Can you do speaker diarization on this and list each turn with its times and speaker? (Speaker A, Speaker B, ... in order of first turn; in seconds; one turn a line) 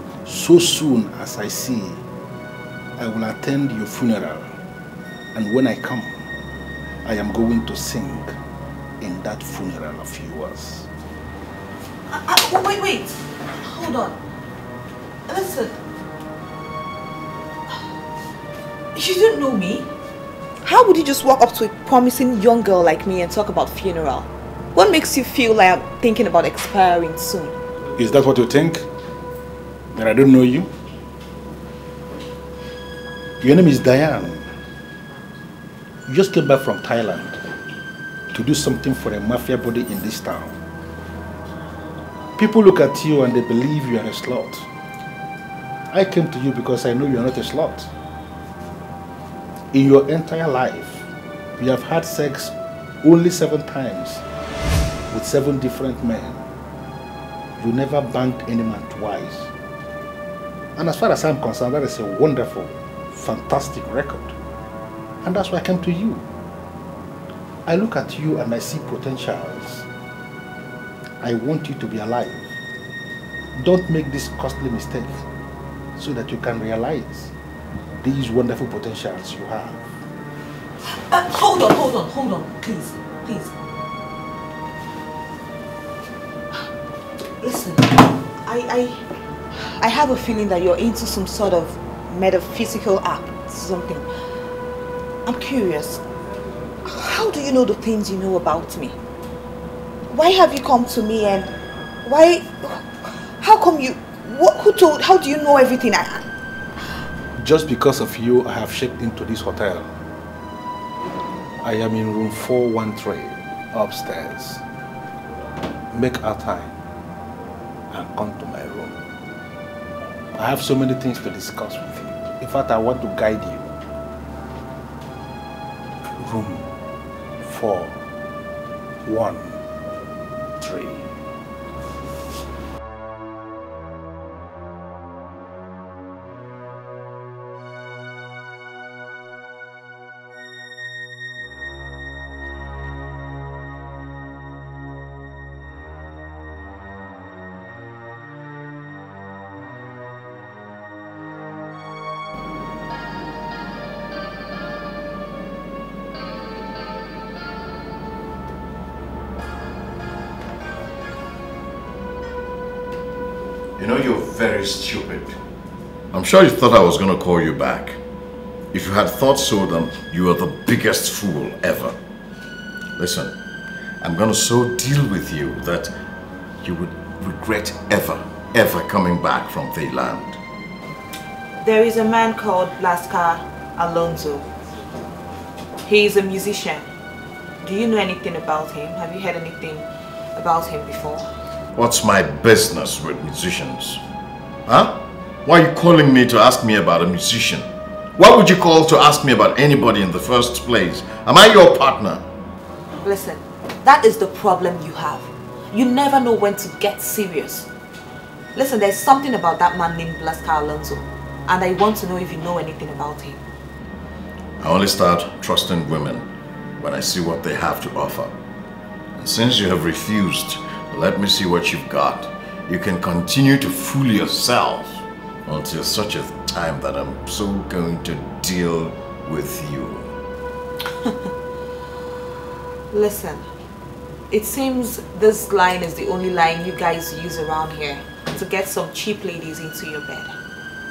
Speaker A: 0.2-2.0
Speaker A: 3.0-4.6
Speaker A: 5.3-6.3
Speaker A: 7.0-8.4
Speaker A: 9.0-10.9
Speaker B: 12.1-14.2
Speaker B: 15.3-15.8
Speaker B: 18.9-19.9
Speaker B: 20.6-27.6
Speaker A: 28.0-28.9
Speaker A: 29.9-30.7
Speaker A: 33.4-34.5
Speaker A: 36.1-37.4
Speaker A: 38.3-40.6
Speaker A: 42.4-44.7
Speaker A: 45.9-47.9
Speaker A: 49.7-54.2
Speaker A: 55.1-56.4
Speaker A: 57.6-59.5
Speaker A: 60.8-64.4
Speaker A: 65.2-66.3
Speaker A: 67.7-69.9
Speaker A: 71.2-72.5
Speaker A: 73.5-75.3
Speaker A: 76.0-77.3
Speaker A: 78.0-79.8
Speaker B: 80.9-83.5
Speaker B: 87.4-94.1
Speaker B: 95.2-96.0
Speaker B: 96.8-99.0
Speaker B: 100.1-106.3
Speaker A: 107.4-110.0
Speaker A: 111.6-114.6
Speaker A: 115.9-116.7
Speaker A: 117.9-119.0
Speaker A: 120.3-123.7
Speaker A: 126.1-126.7
Speaker A: 127.4-128.0
Speaker A: 129.0-129.6
Speaker A: 130.6-131.1
Speaker C: 163.8-165.4
Speaker C: 166.1-168.0
Speaker C: 168.7-172.0
Speaker C: 173.0-173.4
Speaker C: 174.0-176.0
Speaker C: 176.6-180.4
Speaker B: 181.6-184.5
Speaker B: 185.8-186.9
Speaker B: 187.6-191.3
Speaker C: 191.8-194.0
Speaker C: 194.7-202.3
Speaker B: 203.0-207.7
Speaker B: 208.6-213.4
Speaker C: 214.6-216.3
Speaker C: 216.8-218.4
Speaker C: 219.2-230.1
Speaker B: 232.9-233.5
Speaker B: 234.3-240.3